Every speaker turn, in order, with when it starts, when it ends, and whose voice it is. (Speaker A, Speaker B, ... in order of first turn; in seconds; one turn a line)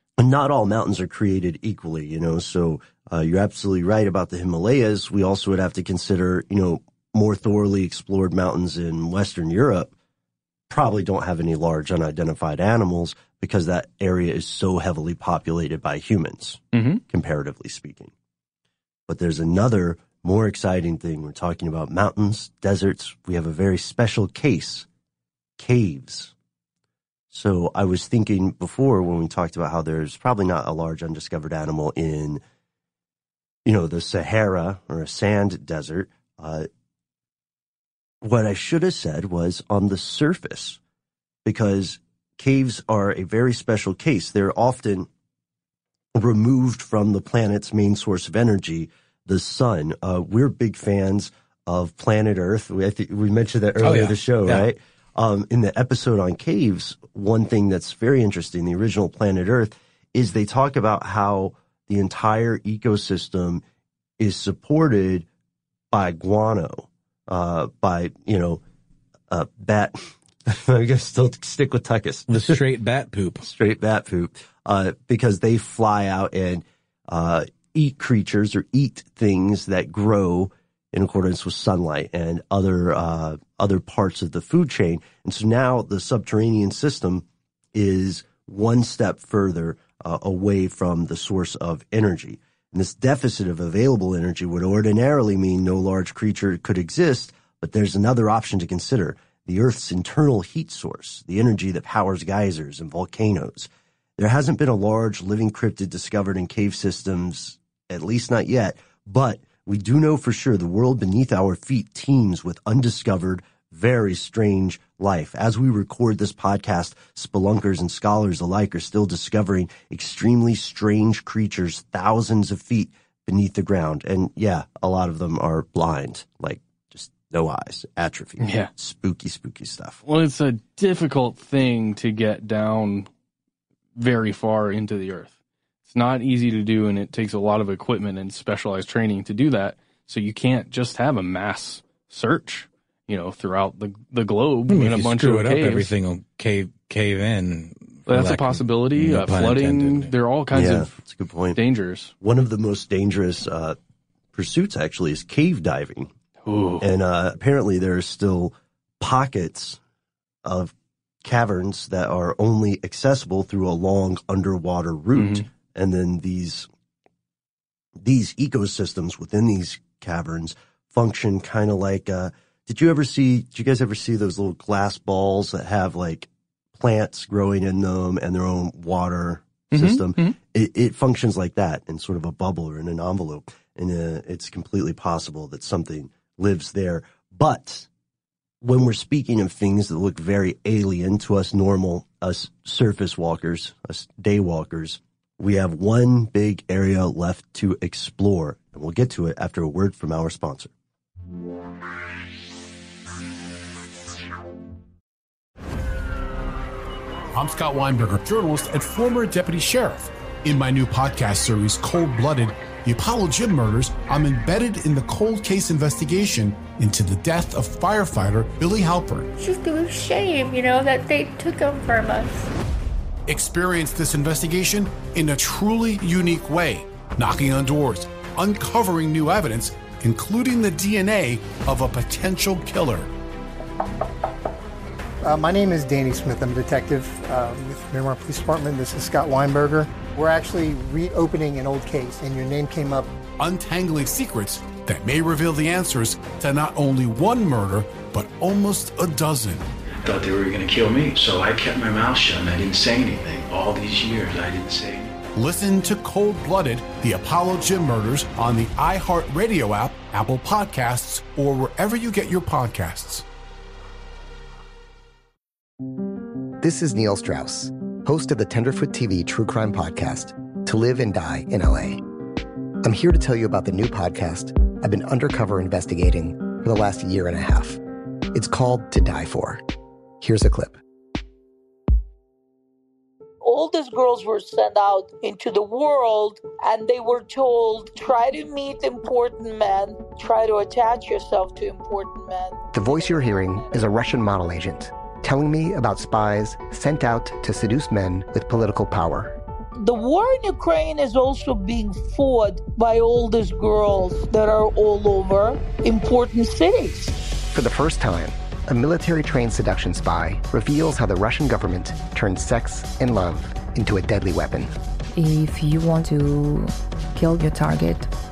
Speaker A: 0.2-9.9
Speaker A: 10.7-18.1
Speaker B: 16.7-17.0
Speaker A: 19.1-24.9
Speaker A: 25.6-26.3
Speaker A: 27.3-32.4
Speaker A: 33.6-36.7
Speaker A: 38.2-40.8
Speaker A: 41.4-45.1
Speaker A: 46.1-63.6
Speaker C: 53.8-54.7
Speaker A: 64.2-65.2
Speaker A: 65.9-68.6
Speaker A: 69.3-72.6
Speaker C: 72.3-73.5
Speaker A: 73.4-130.0
Speaker B: 128.4-128.7
Speaker B: 130.0-133.1
Speaker B: 133.9-135.3
Speaker B: 135.9-145.9
Speaker C: 144.7-150.1
Speaker B: 148.1-150.9
Speaker A: 150.5-151.6
Speaker B: 151.5-152.1
Speaker A: 152.2-153.8
Speaker A: 154.3-156.1
Speaker B: 156.4-156.9
Speaker A: 156.8-159.8
Speaker A: 160.4-166.7
Speaker B: 165.1-165.4
Speaker A: 168.0-187.9
Speaker B: 179.7-180.4
Speaker A: 188.6-200.7
Speaker D: 207.3-219.3
Speaker E: 219.4-222.5
Speaker F: 220.1-220.6
Speaker D: 223.3-233.1
Speaker G: 235.2-243.1
Speaker D: 243.4-249.7
Speaker H: 250.0-255.1
Speaker D: 255.3-263.2
Speaker I: 266.6-272.0
Speaker I: 272.8-277.8
Speaker I: 278.3-279.6
Speaker I: 280.2-280.8
Speaker F: 283.4-292.6
Speaker I: 292.7-299.4
Speaker F: 299.8-307.1
Speaker I: 307.5-314.7
Speaker J: 315.1-318.1